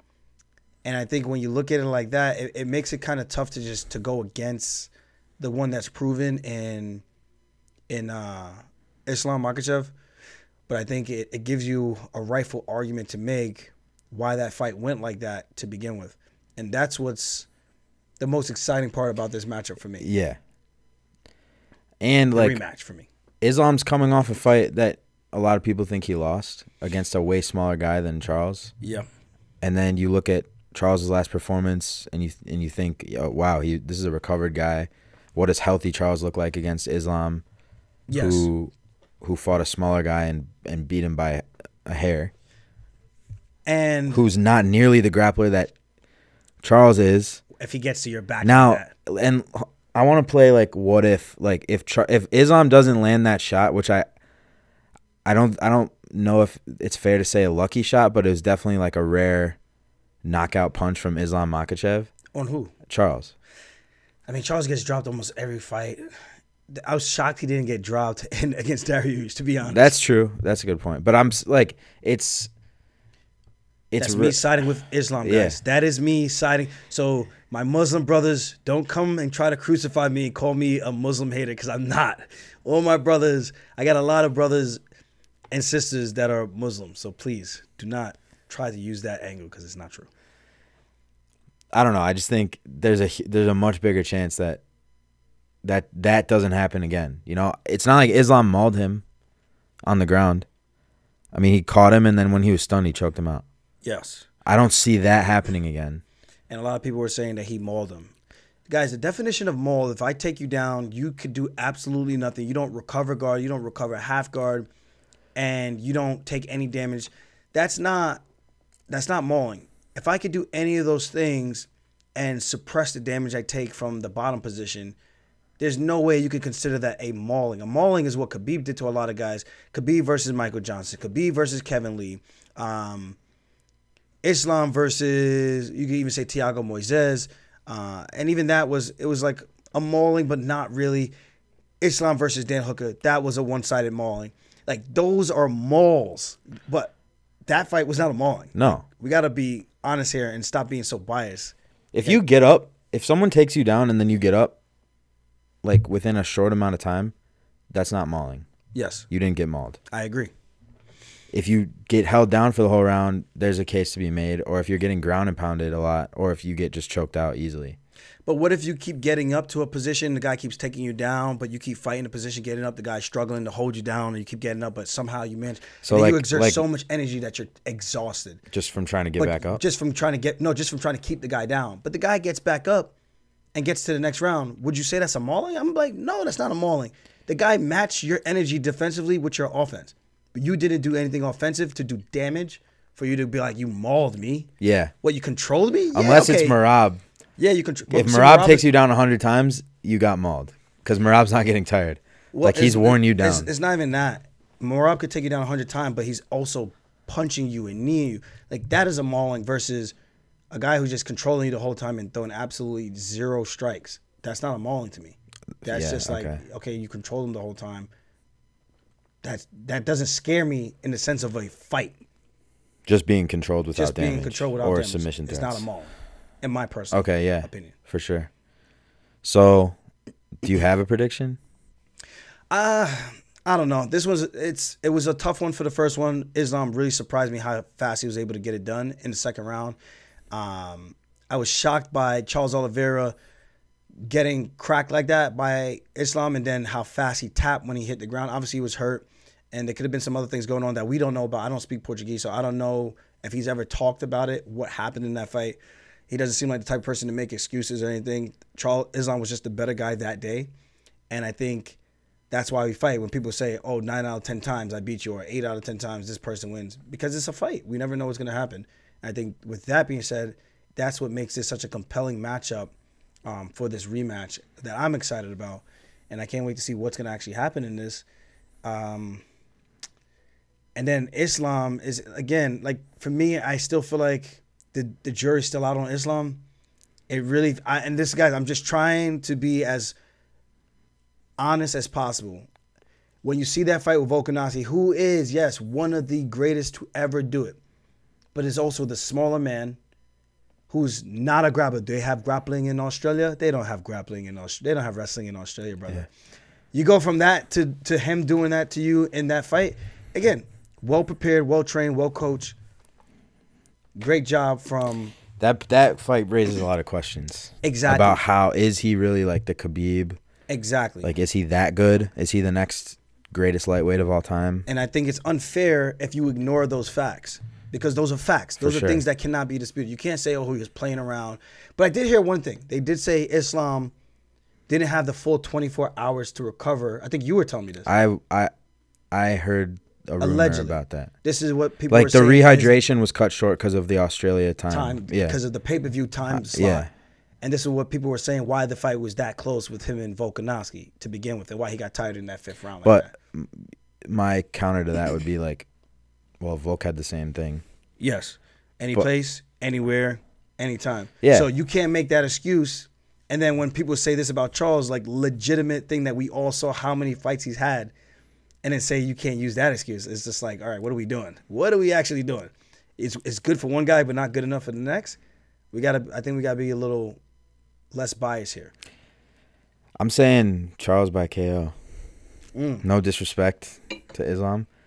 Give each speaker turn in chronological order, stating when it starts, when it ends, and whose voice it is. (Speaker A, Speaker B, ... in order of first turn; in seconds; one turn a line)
Speaker A: 0.8-7.0
Speaker A: 7.9-9.9
Speaker A: 10.7-17.5
Speaker A: 18.2-20.1
Speaker B: 20.0-20.4
Speaker B: 22.0-22.6
Speaker A: 22.3-23.1
Speaker B: 23.4-28.7
Speaker A: 28.8-29.1
Speaker B: 29.6-37.4
Speaker A: 38.1-38.5
Speaker B: 38.1-42.3
Speaker A: 43.7-44.2
Speaker B: 44.1-45.7
Speaker B: 46.6-47.4
Speaker A: 47.6-48.9
Speaker B: 48.4-54.1
Speaker B: 55.2-59.6
Speaker B: 60.2-62.1
Speaker A: 62.3-62.7
Speaker B: 62.9-63.4
Speaker A: 64.3-66.0
Speaker A: 66.7-70.0
Speaker B: 69.7-72.5
Speaker B: 73.9-74.4
Speaker A: 74.0-84.8
Speaker B: 75.2-75.6
Speaker A: 85.5-90.1
Speaker B: 91.7-94.6
Speaker B: 95.6-99.0
Speaker B: 99.8-100.5
Speaker B: 101.3-103.4
Speaker A: 103.8-104.3
Speaker B: 104.5-106.0
Speaker A: 106.5-108.1
Speaker A: 108.7-114.7
Speaker A: 115.4-118.2
Speaker A: 118.9-125.0
Speaker A: 125.6-133.2
Speaker A: 134.2-141.1
Speaker A: 141.8-146.9
Speaker A: 147.5-152.2
Speaker B: 148.6-148.8
Speaker B: 151.9-154.6
Speaker B: 155.6-157.1
Speaker B: 157.7-158.5
Speaker A: 158.7-159.1
Speaker B: 159.1-159.8
Speaker A: 159.9-160.3
Speaker B: 161.3-167.8
Speaker A: 168.3-178.4
Speaker B: 175.8-176.6
Speaker B: 178.5-179.6
Speaker A: 179.2-182.9
Speaker A: 183.6-194.5
Speaker B: 194.6-194.9
Speaker A: 195.0-196.6
Speaker B: 195.9-197.0
Speaker A: 197.4-198.7
Speaker B: 197.9-203.5
Speaker A: 202.3-209.9
Speaker A: 210.5-217.9
Speaker B: 215.7-216.4
Speaker A: 219.2-222.0
Speaker B: 222.9-225.7
Speaker A: 223.8-227.7
Speaker B: 226.9-228.3
Speaker B: 229.2-229.8
Speaker B: 230.4-231.4
Speaker A: 232.5-239.8
Speaker A: 240.3-243.2
Speaker A: 244.1-255.6
Speaker A: 256.1-260.5
Speaker A: 261.1-261.8
Speaker A: 262.3-272.7
Speaker A: 273.3-278.0
Speaker A: 278.6-279.2
Speaker A: 280.8-286.4
Speaker A: 287.1-289.9
Speaker A: 291.4-292.5
Speaker A: 293.2-297.6
Speaker A: 298.4-299.8
Speaker A: 300.7-306.1
Speaker A: 306.7-312.6
Speaker A: 314.0-315.1
Speaker B: 315.4-320.2
Speaker A: 317.6-318.2
Speaker A: 320.5-321.1
Speaker B: 321.0-324.7
Speaker A: 324.7-333.9
Speaker B: 328.6-329.0
Speaker A: 334.7-337.9
Speaker B: 337.9-338.5
Speaker B: 339.1-341.1
Speaker A: 340.2-342.7
Speaker B: 341.9-345.4
Speaker A: 344.7-346.9
Speaker B: 346.3-346.9
Speaker A: 347.4-353.1
Speaker B: 352.8-355.7
Speaker B: 356.4-357.6
Speaker A: 358.0-367.9
Speaker A: 368.6-375.2
Speaker A: 375.7-377.2
Speaker A: 377.9-378.7
Speaker B: 380.0-381.8
Speaker A: 382.6-382.9
Speaker B: 382.8-384.7